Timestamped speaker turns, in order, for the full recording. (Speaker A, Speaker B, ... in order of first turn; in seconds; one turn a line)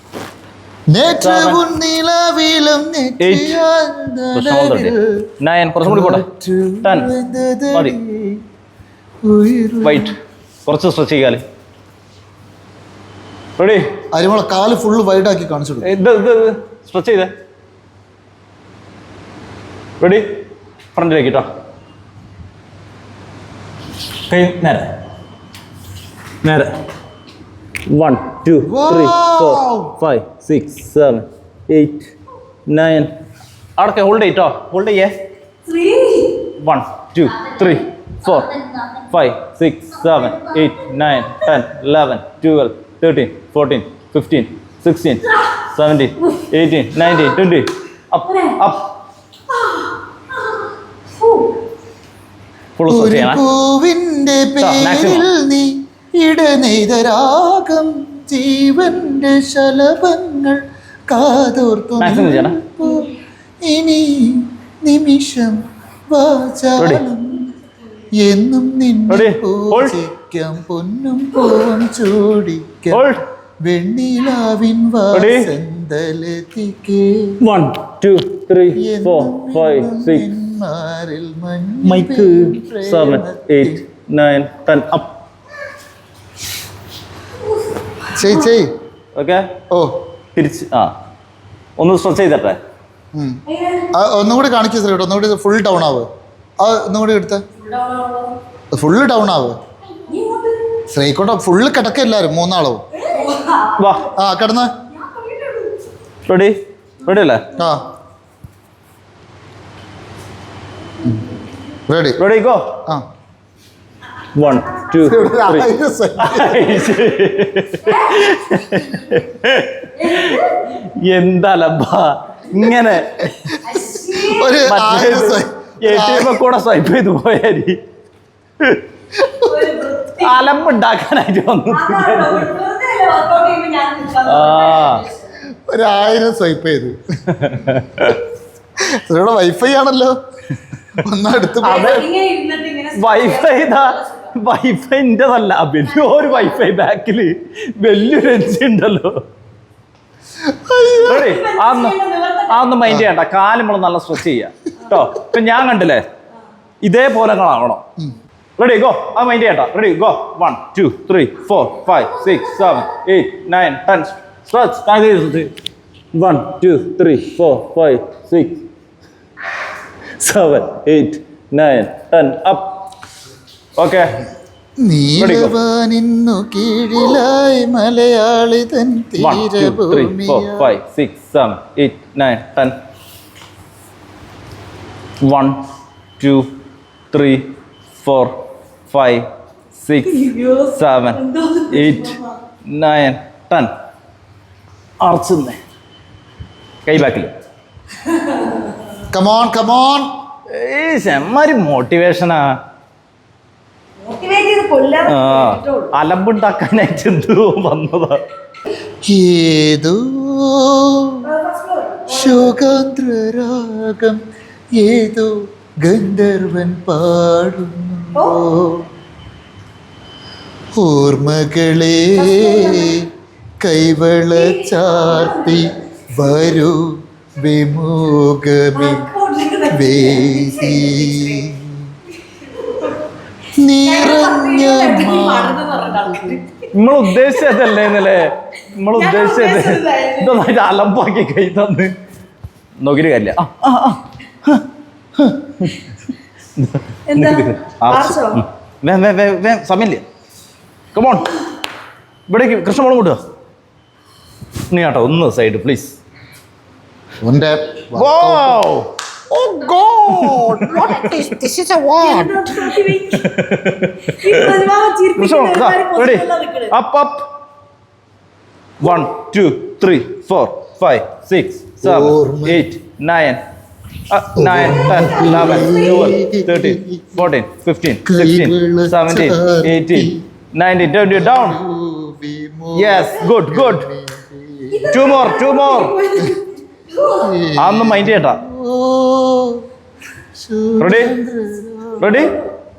Speaker A: 0.9-5.2
Speaker B: 1.2-1.6
Speaker B: 3.2-3.6
Speaker B: 4.3-6.2
Speaker A: 5.8-8.4
Speaker B: 6.8-7.1
Speaker B: 7.7-8.0
Speaker A: 9.2-10.1
Speaker B: 9.8-11.4
Speaker B: 13.6-13.8
Speaker A: 14.1-15.9
Speaker B: 15.8-17.3
Speaker B: 20.0-20.4
Speaker B: 20.9-21.5
Speaker B: 24.3-24.9
Speaker B: 26.4-26.7
Speaker B: 27.9-32.1
Speaker A: 28.6-29.9
Speaker B: 32.7-33.1
Speaker B: 33.8-35.1
Speaker C: 35.6-36.5
Speaker B: 36.5-48.8
Speaker C: 49.5-49.9
Speaker B: 52.8-53.4
Speaker A: 52.9-67.5
Speaker B: 54.6-55.3
Speaker B: 62.0-62.6
Speaker B: 66.8-67.0
Speaker A: 68.1-77.4
Speaker B: 69.1-70.0
Speaker B: 72.9-73.2
Speaker B: 75.1-75.5
Speaker B: 77.4-80.3
Speaker A: 78.8-83.8
Speaker B: 81.8-85.2
Speaker A: 88.1-88.7
Speaker B: 89.1-89.5
Speaker A: 89.7-90.0
Speaker B: 90.3-90.9
Speaker B: 91.8-92.6
Speaker A: 93.1-97.4
Speaker C: 93.5-93.9
Speaker C: 97.6-98.4
Speaker A: 98.7-99.6
Speaker C: 100.0-100.8
Speaker A: 100.9-102.8
Speaker C: 103.0-104.0
Speaker B: 103.8-104.1
Speaker A: 104.1-104.7
Speaker C: 105.0-105.7
Speaker B: 106.2-107.5
Speaker A: 107.5-107.8
Speaker A: 111.0-111.3
Speaker A: 111.9-112.2
Speaker B: 112.2-112.8
Speaker B: 114.3-123.6
Speaker A: 115.0-116.9
Speaker C: 120.2-120.4
Speaker A: 123.5-126.4
Speaker C: 123.6-124.5
Speaker B: 124.6-127.8
Speaker A: 129.2-129.7
Speaker C: 129.4-130.5
Speaker B: 130.2-132.5
Speaker C: 131.7-135.2
Speaker B: 134.2-135.1
Speaker A: 135.5-138.1
Speaker B: 137.3-138.2
Speaker A: 138.8-140.2
Speaker A: 140.9-142.1
Speaker C: 141.6-144.3
Speaker B: 142.9-149.2
Speaker A: 150.4-151.3
Speaker B: 151.0-156.0
Speaker C: 151.0-152.7
Speaker A: 152.8-153.1
Speaker B: 156.8-157.8
Speaker B: 158.6-165.5
Speaker B: 166.1-168.6
Speaker B: 170.2-172.8
Speaker B: 173.8-174.2
Speaker A: 174.8-180.8
Speaker B: 175.2-175.6
Speaker B: 179.2-182.8
Speaker B: 185.2-185.6
Speaker B: 186.2-186.5
Speaker B: 187.1-193.7
Speaker C: 190.1-192.3
Speaker B: 195.0-195.6
Speaker B: 196.8-197.3
Speaker C: 198.1-198.7
Speaker A: 199.1-200.1
Speaker B: 200.5-202.6
Speaker C: 204.0-205.9
Speaker B: 205.1-208.2
Speaker A: 209.1-211.3
Speaker C: 211.2-212.5
Speaker A: 212.1-214.2
Speaker A: 214.8-218.9
Speaker C: 218.1-218.4
Speaker A: 220.7-229.1
Speaker C: 222.2-223.0
Speaker C: 224.3-225.7
Speaker C: 228.7-231.4
Speaker A: 229.7-231.9
Speaker C: 232.6-232.9
Speaker A: 233.6-236.4
Speaker C: 233.8-236.4
Speaker B: 236.7-241.9
Speaker C: 237.3-238.0
Speaker C: 238.9-240.4
Speaker B: 242.8-244.7
Speaker B: 245.2-245.8
Speaker B: 246.6-250.0
Speaker C: 247.1-248.4
Speaker B: 250.9-251.3
Speaker B: 252.3-253.2
Speaker B: 254.7-256.0
Speaker A: 257.2-258.6
Speaker B: 257.9-258.9
Speaker A: 259.3-262.8
Speaker B: 259.8-261.0
Speaker C: 260.7-261.4
Speaker C: 261.9-263.4
Speaker B: 263.1-264.6
Speaker C: 264.0-266.7
Speaker B: 265.1-267.3
Speaker B: 268.8-273.4
Speaker A: 271.8-272.6
Speaker B: 274.1-281.6
Speaker A: 274.4-277.3
Speaker C: 275.1-276.0
Speaker A: 278.0-280.2
Speaker A: 281.0-285.1
Speaker B: 282.7-283.9
Speaker C: 284.7-287.3
Speaker B: 284.9-286.0
Speaker A: 287.1-289.6
Speaker B: 287.6-288.4
Speaker A: 290.3-292.4
Speaker B: 290.8-291.1
Speaker B: 292.0-292.4